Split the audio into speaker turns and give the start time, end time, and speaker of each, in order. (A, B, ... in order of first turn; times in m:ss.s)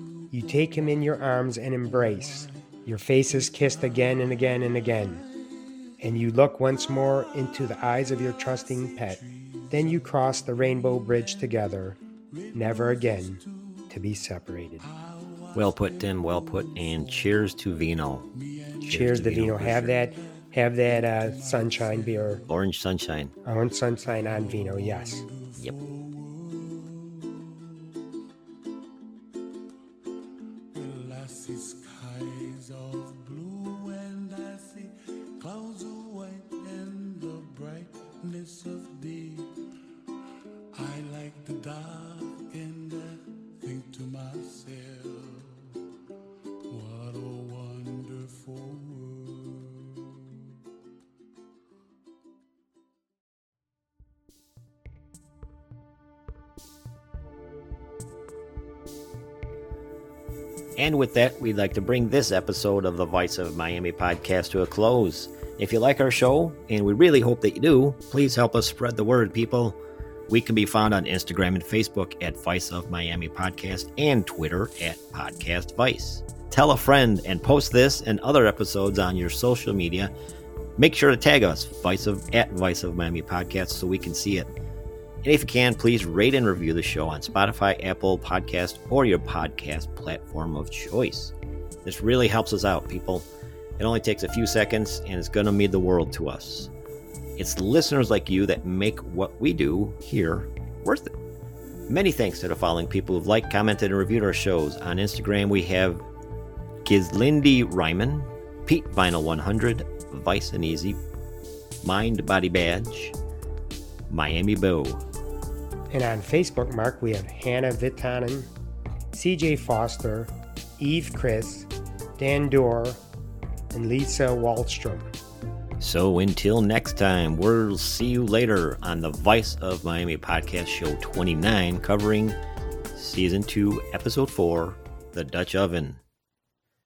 0:00.3-0:05.2 A
0:06.0-0:12.0 A
0:12.5-0:14.9 A
0:15.5-0:20.0 B
0:18.8-0:22.4 A
0:22.5-0:23.3 B
0:23.5-0:25.3 A
0:25.5-0:25.8 B
1:00.8-1:20.1 B
1:20.8-1:24.5 B
1:25.2-1:36.7 B
1:37.4-1:41.1 B
1:41.9-1:46.0 B
1:46.8-1:51.0 B
1:51.8-1:53.2 B
1:54.1-1:55.0 B
1:55.9-1:58.5 A
1:59.1-2:03.0 A
2:03.7-2:05.1 A
2:05.8-2:12.4 B
2:12.9-2:16.0 B